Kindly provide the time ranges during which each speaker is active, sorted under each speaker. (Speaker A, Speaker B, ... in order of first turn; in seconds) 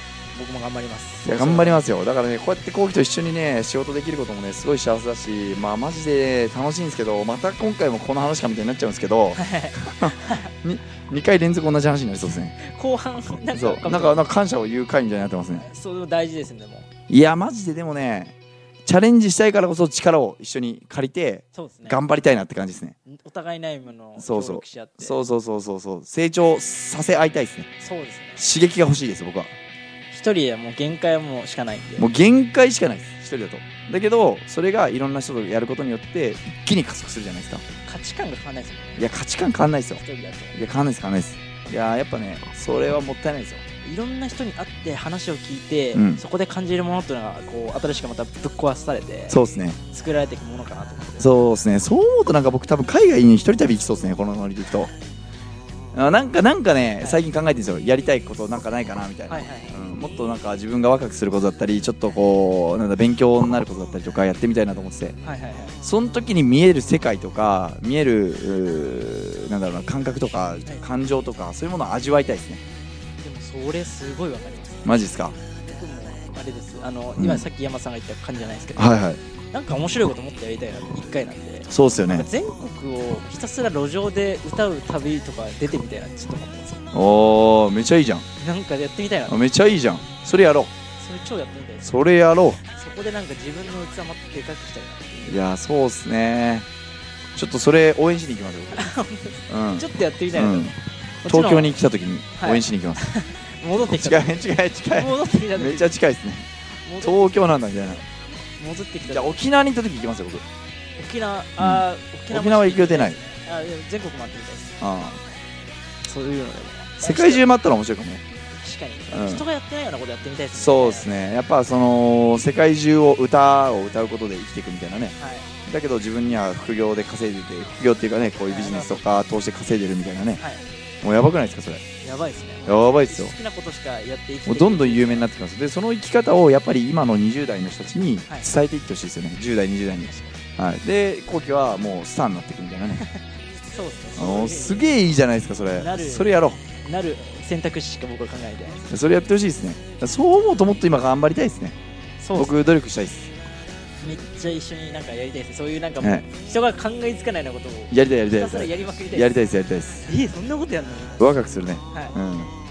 Speaker A: 0.3-1.9, 9.3-10.5, 12.6-14.2, 15.5-16.9, 21.5-22.0, 23.1-25.2, 27.8-28.4, 30.1-32.1, 37.9-39.0, 40.0-40.6, 43.8-49.4, 49.9-51.4, 59.3-59.7, 65.2-65.8, 73.2-78.9, 79.5-86.8, 88.4-89.7, 91.0-91.9, 92.6-95.4, 98.7-101.8, 102.4-104.4, 104.9-105.9, 106.8-107.6, 108.6-109.4, 111.0-114.7, 116.0-117.5, 118.6-121.3, 125.1-125.5, 128.5-129.0, 130.4-130.6, 132.0-135.3, 140.0-140.4, 143.7-144.9, 145.7-148.9, 152.2-152.6, 154.0-159.3, 160.0-161.3
Speaker B: 1.2-12.6, 13.5-15.7, 17.1-22.9, 24.2-27.7, 28.4-29.5, 32.0-37.6, 39.0-40.0, 40.5-43.6, 45.9-46.2, 49.3-49.8, 51.2-54.9, 55.9-65.2, 65.8-72.6, 74.8-75.4, 77.2-77.5, 78.8-79.2, 81.7-82.3, 86.9-88.2, 89.3-90.7, 91.8-92.6, 95.2-96.7, 97.3-98.9, 99.5-103.0, 103.8-106.5, 107.0-108.0, 109.0-110.4, 111.6-113.2, 114.8-115.2, 117.0-118.2, 119.1-119.4, 120.5-125.1, 125.7-130.4, 131.0-131.8, 132.6-133.3, 134.4-143.0, 144.2-146.6, 148.9-151.7, 152.3-153.3, 156.0-156.3, 157.9-160.1, 161.2-162.5